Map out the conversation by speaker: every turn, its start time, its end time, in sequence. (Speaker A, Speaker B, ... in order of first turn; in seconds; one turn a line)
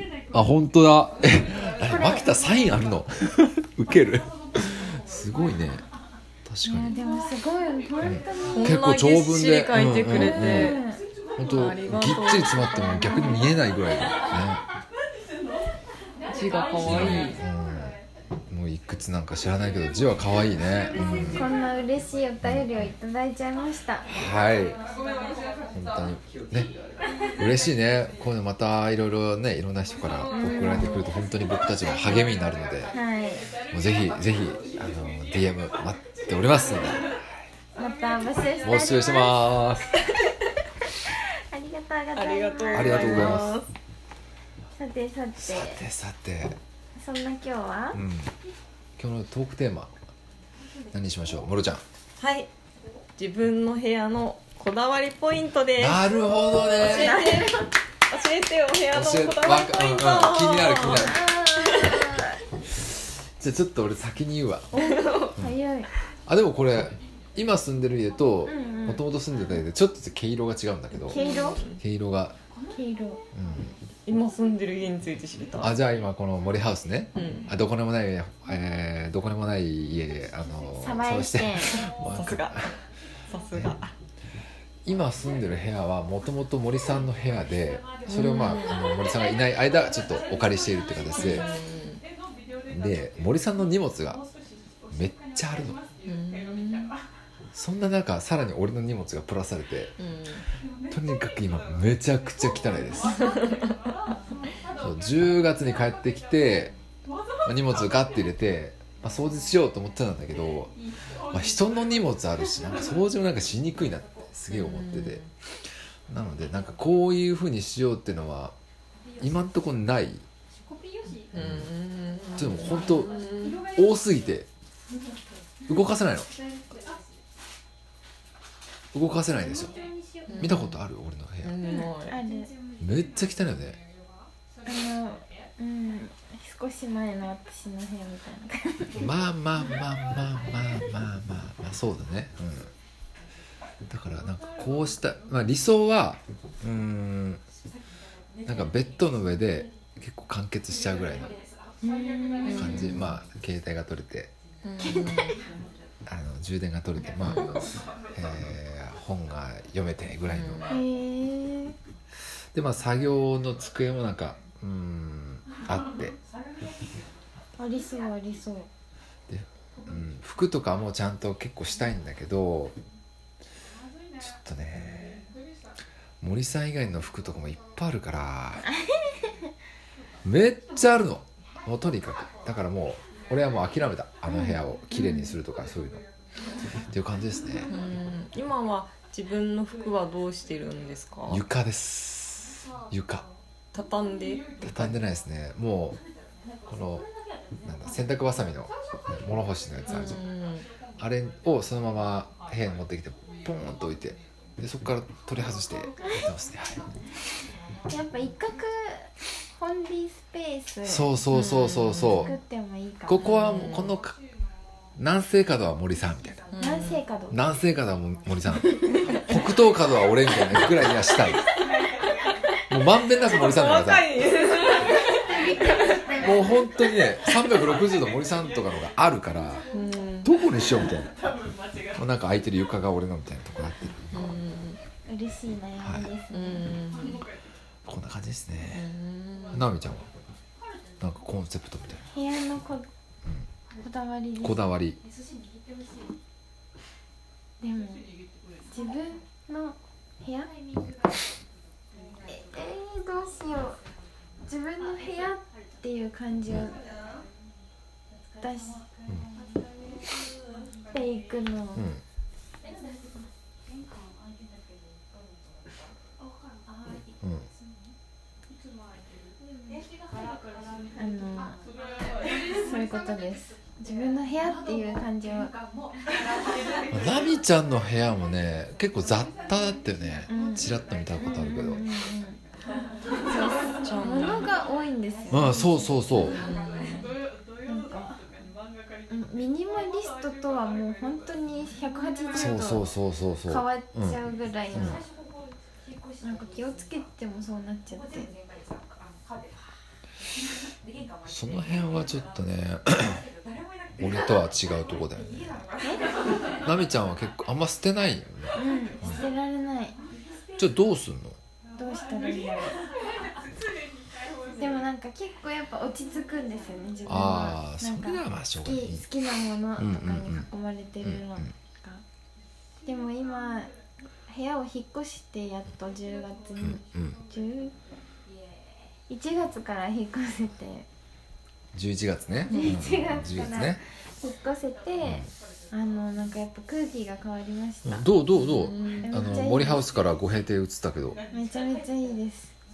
Speaker A: 0.3-5.8
Speaker B: 1.9-2.3
Speaker A: 6.4-6.9
Speaker B: 6.6-8.8
Speaker A: 8.0-10.8
Speaker C: 8.5-10.8
Speaker B: 10.1-11.0
Speaker A: 11.4-14.6
Speaker C: 11.4-13.5
Speaker B: 13.0-13.4
Speaker C: 16.3-17.4
Speaker A: 16.8-18.0
Speaker A: 18.5-21.5
Speaker C: 21.0-21.3
Speaker B: 21.3-24.1
Speaker A: 22.4-22.9
Speaker A: 24.1-24.8
Speaker A: 25.7-26.7
Speaker A: 27.4-32.9
Speaker B: 30.3-31.1
Speaker C: 30.5-31.1
Speaker B: 32.9-33.4
Speaker A: 33.7-37.5
Speaker B: 37.8-39.6
Speaker A: 38.6-39.9
Speaker B: 41.5-43.5
Speaker C: 42.1-43.7
Speaker A: 42.7-43.6
Speaker B: 44.8-45.8
Speaker A: 45.4-46.6
Speaker B: 47.0-48.0
Speaker A: 47.9-48.3
Speaker A: 49.0-49.9
Speaker A: 50.9-51.8
Speaker C: 52.2-52.5
Speaker C: 53.2-56.0
Speaker A: 55.8-57.3
Speaker C: 56.8-62.2
Speaker B: 56.8-57.7
Speaker A: 58.9-61.3
Speaker B: 60.9-62.4
Speaker A: 62.7-64.7
Speaker B: 64.7-65.9
Speaker C: 64.8-65.3
Speaker A: 66.3-72.3
Speaker B: 68.5-69.0
Speaker B: 71.1-71.6
Speaker C: 71.1-71.8
Speaker B: 72.7-73.2
Speaker A: 73.3-73.7
Speaker C: 74.1-75.8
Speaker A: 75.6-82.7
Speaker C: 77.1-77.5
Speaker B: 80.8-81.8
Speaker C: 81.8-82.7
Speaker C: 83.3-83.9
Speaker A: 84.8-91.5
Speaker C: 88.1-88.8
Speaker C: 91.2-92.0
Speaker A: 92.7-94.2
Speaker A: 94.9-95.8
Speaker C: 96.0-96.9
Speaker A: 97.5-99.9
Speaker C: 100.0-100.4
Speaker A: 100.9-103.2
Speaker C: 103.1-103.7
Speaker A: 104.8-106.7
Speaker A: 107.4-110.7
Speaker A: 111.3-115.2
Speaker C: 114.5-115.3
Speaker A: 116.1-118.5
Speaker A: 119.2-120.2
Speaker C: 121.2-123.7
Speaker A: 121.3-121.7
Speaker A: 122.4-123.1
Speaker A: 123.7-124.5
Speaker A: 125.7-126.3
Speaker A: 128.9-129.8
Speaker C: 130.3-130.8
Speaker A: 130.4-131.6
Speaker C: 131.4-132.2
Speaker B: 131.6-132.5
Speaker A: 132.8-133.8
Speaker B: 134.7-139.0
Speaker A: 139.0-142.7
Speaker A: 143.9-147.4
Speaker A: 148.4-151.3
Speaker B: 151.8-152.9
Speaker C: 152.4-153.1
Speaker A: 152.5-154.3
Speaker C: 154.6-155.4
Speaker B: 154.8-155.4
Speaker A: 156.1-160.6
Speaker C: 157.2-157.5
Speaker C: 160.3-160.8
Speaker B: 160.7-161.8
Speaker A: 162.5-166.2
Speaker B: 167.6-168.7
Speaker A: 169.3-172.8
Speaker A: 174.2-175.2
Speaker A: 176.2-178.6
Speaker B: 178.6-179.5
Speaker A: 180.2-186.0
Speaker B: 184.3-185.3
Speaker A: 186.9-187.7
Speaker C: 187.7-191.4
Speaker A: 191.3-193.3
Speaker C: 193.7-194.9
Speaker A: 194.6-196.0
Speaker A: 196.7-197.1
Speaker A: 197.6-200.2
Speaker C: 199.9-200.7
Speaker A: 201.0-206.8
Speaker B: 207.9-211.1
Speaker A: 210.8-212.3
Speaker C: 211.3-212.3
Speaker B: 212.2-213.4
Speaker A: 213.1-214.1
Speaker C: 213.2-213.9
Speaker A: 215.0-216.4
Speaker C: 216.5-217.0
Speaker B: 216.6-217.3
Speaker A: 217.3-221.4
Speaker A: 222.7-224.1
Speaker C: 223.2-225.9
Speaker B: 224.7-226.6
Speaker A: 226.2-229.6
Speaker C: 229.7-230.3
Speaker A: 230.2-231.1
Speaker A: 231.9-234.2
Speaker C: 234.1-234.8
Speaker B: 235.1-236.7
Speaker A: 235.8-236.1
Speaker C: 236.3-237.2
Speaker A: 237.8-238.9
Speaker C: 238.7-239.7
Speaker A: 239.5-240.1
Speaker A: 241.0-242.0
Speaker B: 242.1-242.9
Speaker B: 243.8-244.7
Speaker A: 244.4-245.0
Speaker B: 247.6-248.1
Speaker B: 248.7-250.5
Speaker B: 252.3-253.8
Speaker B: 254.4-256.8
Speaker B: 258.4-258.8
Speaker B: 260.9-261.9
Speaker A: 261.8-262.0
Speaker A: 267.2-267.5
Speaker B: 271.0-271.6
Speaker B: 272.4-275.5
Speaker A: 276.9-281.8
Speaker B: 280.3-282.4
Speaker B: 283.3-286.3
Speaker C: 283.4-284.4
Speaker A: 285.3-286.4
Speaker C: 286.2-287.1
Speaker B: 287.6-288.2
Speaker B: 289.1-292.8
Speaker A: 292.3-294.2
Speaker B: 293.5-295.0
Speaker B: 296.2-298.3
Speaker A: 301.2-303.2
Speaker A: 304.0-305.6
Speaker A: 306.6-309.2
Speaker B: 308.5-310.0
Speaker A: 310.6-311.4
Speaker B: 311.8-312.8
Speaker B: 314.6-322.0
Speaker A: 317.1-319.0
Speaker A: 319.8-320.4
Speaker A: 321.0-321.5
Speaker B: 322.9-323.7
Speaker B: 324.3-327.7
Speaker A: 326.6-327.2
Speaker B: 329.1-330.9
Speaker A: 331.7-333.8
Speaker C: 332.5-332.8
Speaker B: 332.5-338.0
Speaker A: 337.8-341.2
Speaker C: 338.4-339.1
Speaker B: 339.0-339.8
Speaker B: 341.3-342.5